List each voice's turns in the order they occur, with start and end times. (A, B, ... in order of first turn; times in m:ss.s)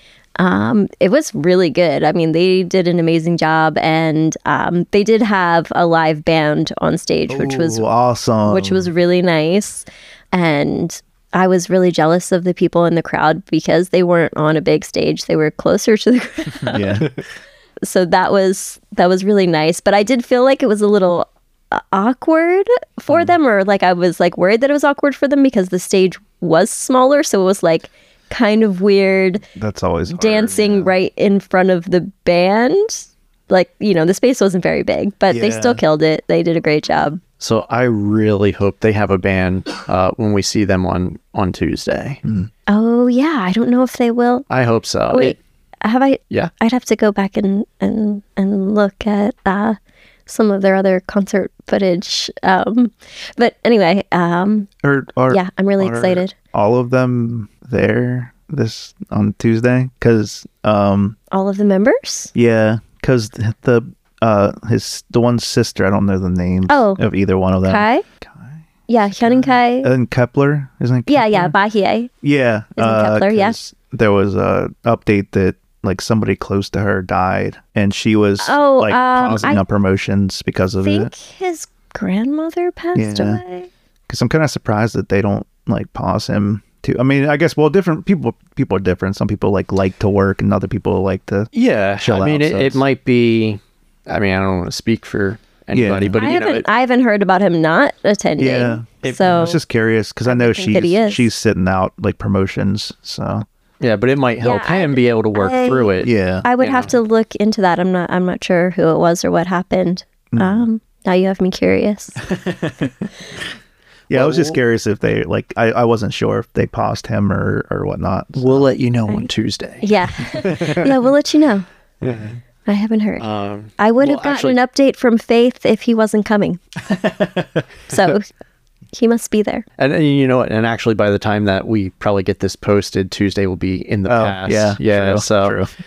0:00.4-0:07.8 A
0:07.3-0:08.9 B
0:08.5-0:17.0 A
0:16.6-0:17.1 B
0:17.8-0:29.4 A
0:29.6-0:30.9 B
0:30.1-0:37.2 A
0:35.3-0:35.8 B
0:37.4-0:42.2 C
0:42.2-0:42.5 B
0:42.7-0:44.5 A
0:44.5-0:45.4 C
0:45.1-0:54.7 A
0:54.8-1:01.2 B
0:55.3-0:56.3 A
1:01.3-1:02.3 A
1:02.3-1:08.6 B
1:06.7-1:07.0 A
1:07.6-1:08.0 A
1:08.9-1:09.9 A
1:09.1-1:11.5 B
1:11.1-1:12.1 A
1:12.2-1:21.1 B
1:12.8-1:13.6 A
1:18.4-1:19.6 A
1:20.8-1:23.7 A
1:23.0-1:23.4 B
1:24.1-1:32.8 B
1:31.5-1:36.7 C
1:35.7-1:36.2 B
1:36.2-1:39.6 A
1:38.4-1:43.5 B
1:39.0-1:39.6 C
1:40.3-1:41.3 A
1:43.8-1:47.0 C
1:44.4-1:52.2 A
1:46.0-1:46.5 B
1:50.3-1:50.7 B
1:52.3-1:52.9 B
1:54.1-1:58.7 B
1:54.1-1:54.6 C
1:58.4-2:00.9 C
1:59.8-2:01.7 A
2:02.0-2:02.4 C
2:02.7-2:03.3 A
2:03.2-2:04.6 C
2:03.8-2:06.6 A
2:06.9-2:07.6 B
2:07.9-2:08.2 A
2:08.9-2:09.6 A
2:09.8-2:15.6 C
2:14.1-2:15.7 B